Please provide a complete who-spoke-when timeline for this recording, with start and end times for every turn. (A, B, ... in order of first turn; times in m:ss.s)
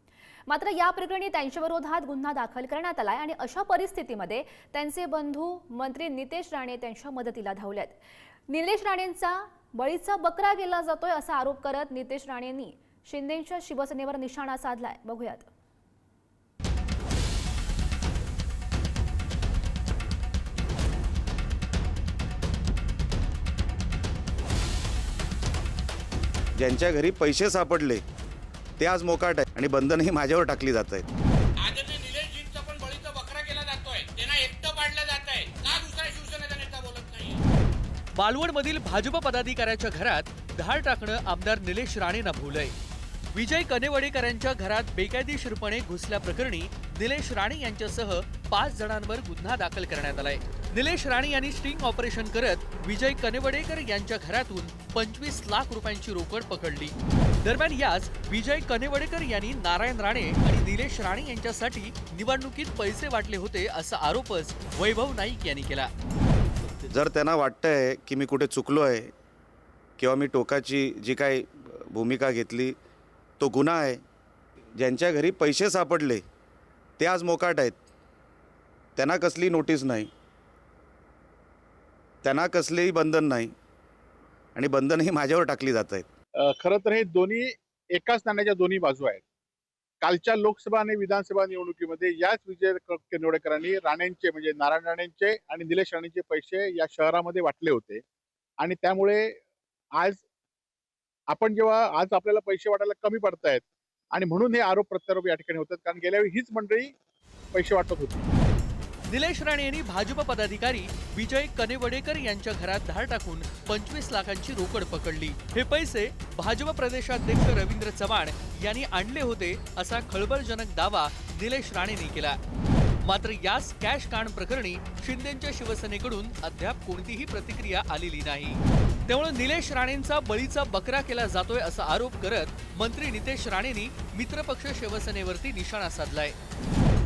0:00.5-0:15.5 A
0:26.6-0:28.0 B
0:28.8-0:31.0 B
0:31.6-0:37.4 C
0:38.2-0:42.7 D
0:43.3-1:05.9 D
1:06.9-1:09.1 B
1:10.0-1:12.8 B
1:13.4-1:14.0 B
1:14.8-1:16.2 B
1:17.0-1:17.8 B
1:19.0-1:20.1 B
1:22.2-1:23.5 B
1:24.6-1:26.1 B
1:26.4-1:29.2 E
1:30.0-1:38.0 E
1:38.6-1:39.4 E
1:40.0-1:40.2 E
1:41.3-1:46.9 E
1:47.5-1:48.3 E
1:49.1-2:02.4 D
2:03.0-2:16.4 D